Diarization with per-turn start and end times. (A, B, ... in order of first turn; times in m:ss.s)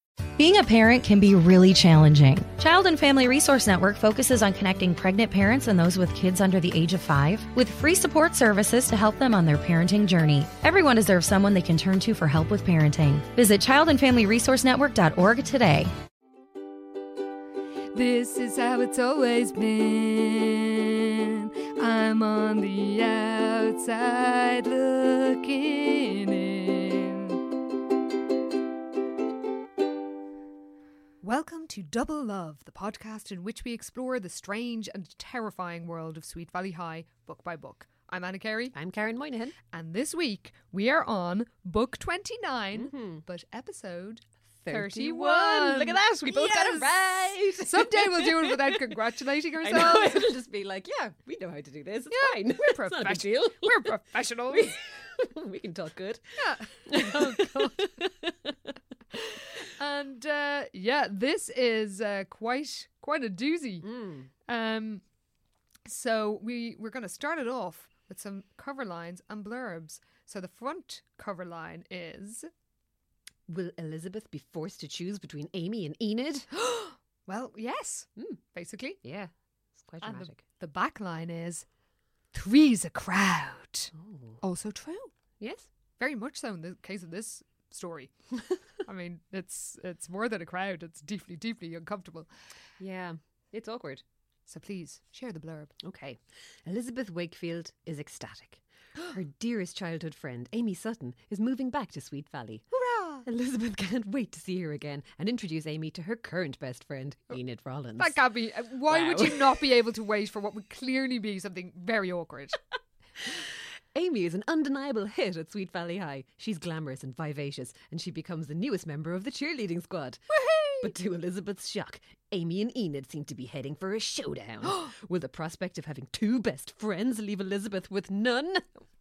0:00.4-0:15.9 A
0:17.9-0:27.4 B
0:31.2-0:38.7 B
0:38.7-0:39.6 C
0:39.7-0:50.3 B
0:42.7-0:43.2 C
0:44.6-0:49.0 C
0:49.6-0:53.9 C
0:52.1-0:54.7 B
0:54.5-0:58.8 C
0:56.4-0:58.0 B
0:59.1-1:03.9 B
1:03.8-1:04.3 C
1:04.4-1:05.0 B
1:05.8-1:12.5 B
1:13.5-1:16.5 C
1:16.5-1:19.0 B
1:19.0-1:20.4 C
1:20.0-1:21.6 B
1:22.3-1:25.1 B
1:23.9-1:24.4 C
1:25.4-1:25.7 C
1:26.0-1:28.1 B
1:28.8-1:32.3 B
1:32.8-1:34.0 C
1:34.5-1:35.7 B
1:35.8-1:42.6 C
1:42.7-1:43.2 B
1:43.2-1:48.2 C
1:48.0-1:52.6 B
1:48.9-1:49.6 C
1:53.2-2:00.2 C
2:00.3-2:00.9 B
2:00.8-2:08.8 C
2:04.6-2:04.9 B